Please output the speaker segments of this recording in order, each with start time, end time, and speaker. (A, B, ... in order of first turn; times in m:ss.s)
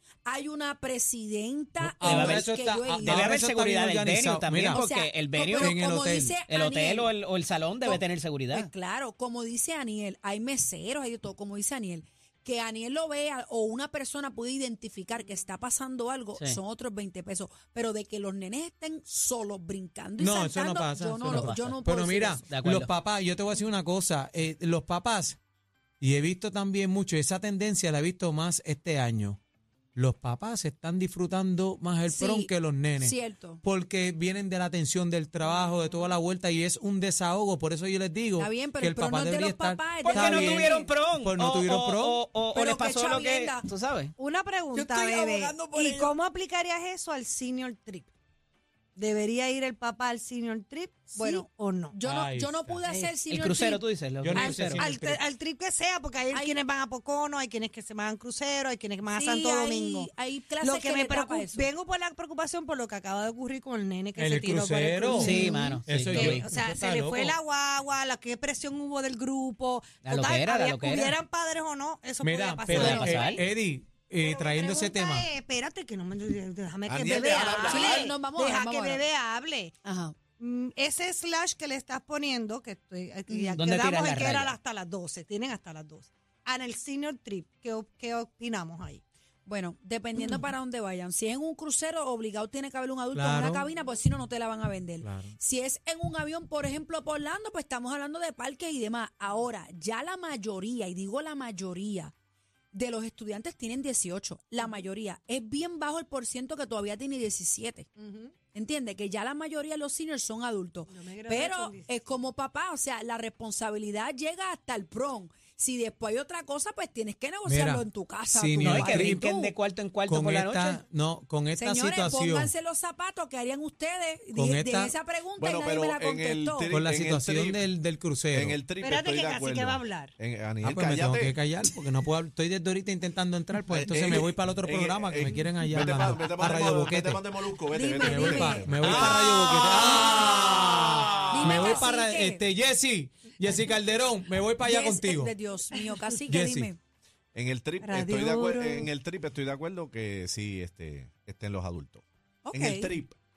0:00.2-0:03.3 A
0:01.8-0:04.8 B
0:02.0-0:02.5 C
0:03.0-0:05.9 C
0:04.7-0:07.1 A
0:05.6-0:06.4 B
0:06.5-0:08.7 C
0:08.5-0:22.5 A
0:20.2-0:25.4 B
0:21.2-0:21.7 C
0:22.5-0:22.9 C
0:26.0-0:29.4 B
0:30.0-0:42.2 B
0:32.1-0:33.6 A
0:38.4-0:40.9 A
0:40.0-0:44.1 C
0:42.5-0:43.6 A
0:44.2-0:48.1 D
0:44.7-0:46.1 A
0:49.0-0:51.9 D
0:51.1-0:53.8 A
0:52.0-0:52.8 B
0:52.9-0:53.1 D
0:53.3-0:54.9 C
0:54.2-0:55.2 B
0:54.4-1:13.4 D
0:59.1-1:01.6 A
1:04.2-1:07.4 B
1:05.1-1:05.8 A
1:05.1-1:06.4 C
1:10.0-1:11.2 C
1:12.2-1:15.3 B
1:12.7-1:13.4 C
1:12.8-1:13.1 A
1:14.2-1:19.7 D
1:16.9-1:18.2 E
1:17.3-1:19.0 A
1:19.8-1:20.2 A
1:20.4-1:29.0 D
1:23.3-1:23.5 A
1:23.6-1:24.6 C
1:29.4-1:42.1 A
1:33.1-1:33.6 B
1:35.0-1:35.4 B
1:42.7-1:47.9 A
1:48.0-1:48.3 D
1:48.5-1:59.5 A
1:50.9-1:52.0 D
1:57.4-1:59.2 B
1:58.6-2:00.8 C
2:00.1-2:02.5 B
2:01.5-2:06.7 A
2:04.4-2:05.0 B
2:05.4-2:07.7 E
2:06.7-2:08.6 B
2:08.3-2:11.4 E
2:08.8-2:10.1 D
2:10.6-2:17.2 B
2:13.7-2:21.8 E
2:17.7-2:20.2 A
2:18.0-2:25.4 B
2:21.3-2:22.4 A
2:24.6-2:26.8 A
2:26.3-2:26.7 B
2:27.3-2:33.2 E
2:27.8-2:28.9 D
2:32.4-2:32.9 A